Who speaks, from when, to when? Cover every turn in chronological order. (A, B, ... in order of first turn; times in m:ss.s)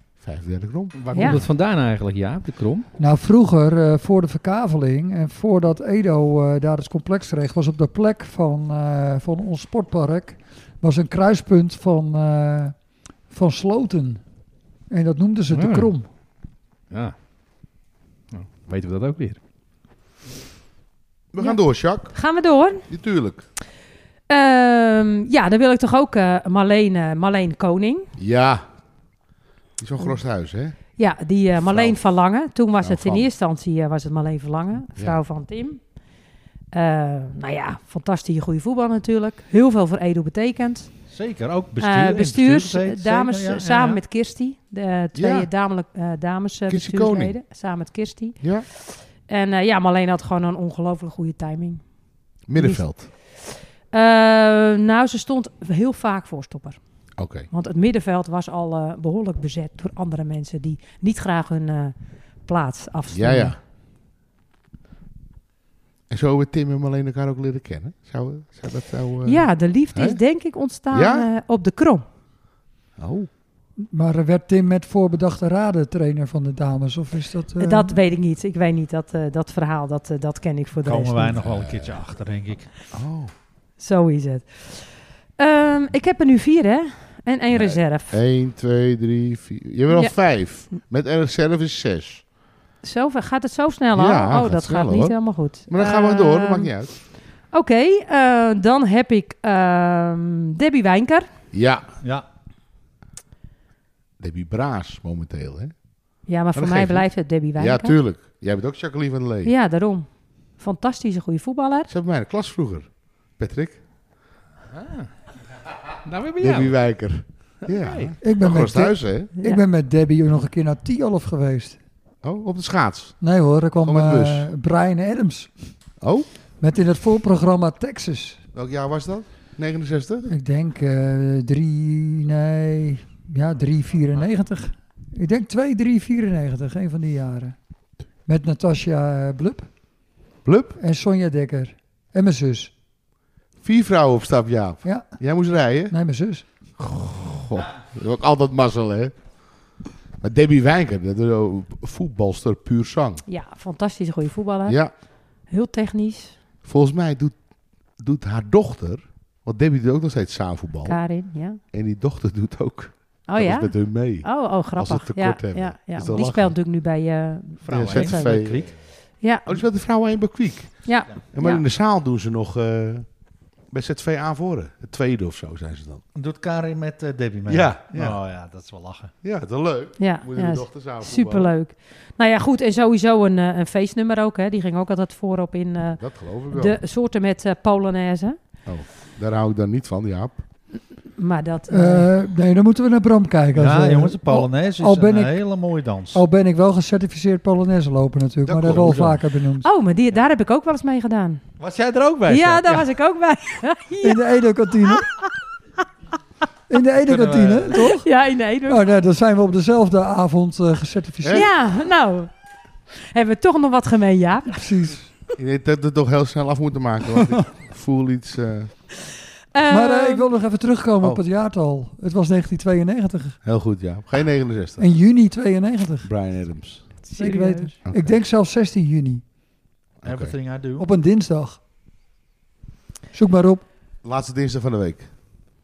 0:00.2-0:01.0 A
0:01.0-0:02.9 B
0:01.1-0:01.4 C
0:03.0-0:14.2 D
0:14.9-0:16.1 D
0:15.5-0:15.9 B
0:16.9-0:17.2 B
0:18.3-0:19.4 B
0:21.3-0:23.5 A
0:21.4-0:22.9 C
0:24.3-0:28.1 C
0:28.2-0:28.7 A
0:29.8-0:30.8 A
0:31.0-0:35.9 C
0:31.6-0:32.0 A
0:32.8-0:33.3 A
0:36.7-0:40.9 C
0:41.1-0:44.0 E
0:41.8-0:51.9 C
0:45.2-0:45.5 A
0:46.7-0:47.4 A
0:48.4-0:48.7 A
0:52.5-0:53.1 A
0:52.6-0:56.8 C
0:57.2-0:57.5 A
0:57.5-1:03.5 C
1:03.1-1:03.6 A
1:06.1-1:10.2 A
1:09.2-1:12.0 C
1:10.9-1:11.3 A
1:13.0-1:13.3 A
1:13.8-1:18.0 D
1:17.6-1:21.4 C
1:20.8-1:22.7 E
1:21.4-1:22.0 A
1:22.9-1:23.3 A
1:23.8-1:28.2 C
1:27.5-1:32.3 A
1:29.9-1:30.2 C
1:32.8-1:41.3 C
1:33.9-1:37.0 A
1:41.5-1:41.9 A
1:44.2-1:45.8 A
1:46.3-1:48.0 C
1:46.5-1:49.5 A
1:49.4-1:51.9 C
1:51.9-1:53.8 A
1:54.7-1:55.1 B
1:56.0-1:56.8 B
1:56.4-1:59.3 A
1:57.7-1:58.2 B
1:58.2-2:01.8 D
2:02.2-2:03.2 A
2:03.2-2:05.6 D
2:03.8-2:04.5 A
2:06.0-2:06.3 A
2:06.6-2:08.4 D
2:08.5-2:10.3 A
2:10.2-2:17.6 D
2:18.2-2:19.7 D
2:20.4-2:20.8 A
2:20.8-2:22.7 D
2:23.6-2:26.0 A
2:24.8-2:25.2 D
2:25.9-2:26.5 D
2:26.8-2:29.3 A
2:30.2-2:33.2 A
2:33.3-2:36.4 C
2:34.7-2:34.9 A
2:36.6-2:37.4 A
2:38.0-2:46.6 A
2:40.8-2:41.6 C
2:43.3-2:48.6 C
2:47.6-2:48.8 E
2:47.7-2:48.9 A
2:49.2-2:49.6 C
2:49.5-2:53.1 A
2:50.8-2:51.6 C
2:53.7-2:56.0 A
2:56.1-2:59.2 E
2:57.5-2:58.4 A
2:59.2-3:01.5 A
3:00.0-3:08.4 C
3:06.0-3:06.8 A
3:08.6-3:10.4 A
3:11.2-3:12.1 C
3:11.7-3:19.7 D
3:13.6-3:16.2 E
3:18.4-3:19.2 A
3:19.6-3:21.4 C
3:21.6-3:22.9 E
3:22.3-3:25.0 C
3:24.0-3:25.1 D
3:26.7-3:28.1 D
3:27.0-3:27.7 E
3:27.8-3:28.8 C
3:28.6-3:31.5 D
3:31.2-3:31.5 A
3:31.3-3:32.3 C
3:33.1-3:34.6 C
3:34.5-3:35.1 D
3:35.4-3:38.8 A
3:39.5-3:40.3 C
3:39.7-3:43.4 D
3:43.4-3:44.9 A
3:44.8-3:46.1 D
3:46.0-3:47.0 A
3:47.0-3:47.8 C
3:47.1-3:49.2 D
3:47.9-3:48.2 A
3:50.0-3:50.4 A
3:50.0-3:50.9 E
3:50.8-3:51.6 D
3:53.1-3:53.6 D
3:54.0-3:55.1 A